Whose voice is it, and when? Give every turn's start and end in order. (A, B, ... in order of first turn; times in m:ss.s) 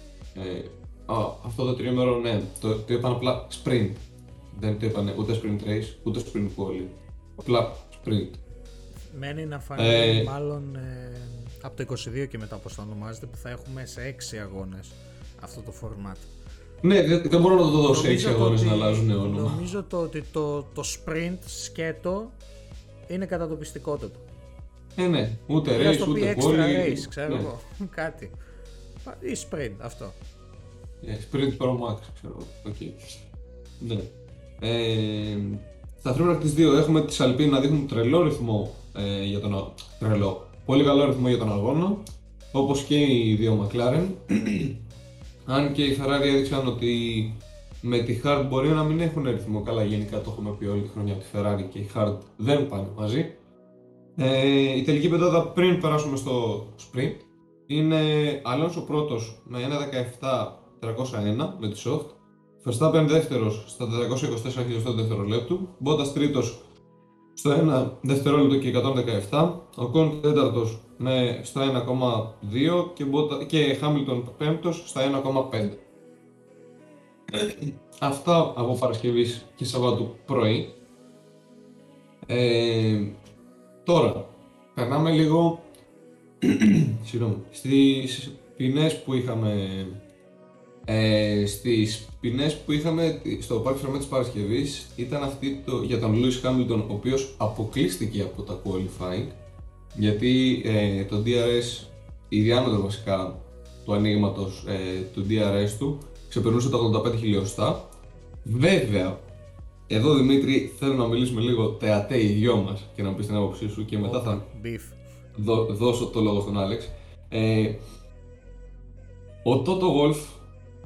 0:00.3-0:08.4 A
0:09.1-0:16.3 B
0:09.8-0:10.3 A
0:16.8-0:19.6 A
0:17.9-0:22.4 B
0:23.1-0:24.2 B
0:25.0-0:27.5 A
0:25.7-0:28.3 B
0:29.0-0:30.2 B
0:31.0-0:33.0 A
0:33.8-0:44.8 A
0:45.5-0:53.4 A
0:54.2-1:06.6 A
1:07.4-1:15.8 A
1:17.3-1:20.7 A
1:22.2-1:23.2 A
1:23.8-1:25.7 A
1:26.4-1:30.0 A
1:30.8-1:39.4 A
1:39.9-1:47.9 A
1:48.4-1:49.2 A
1:49.9-1:54.5 A
1:54.0-1:55.0 B
1:55.3-1:57.8 A
1:59.4-2:00.4 A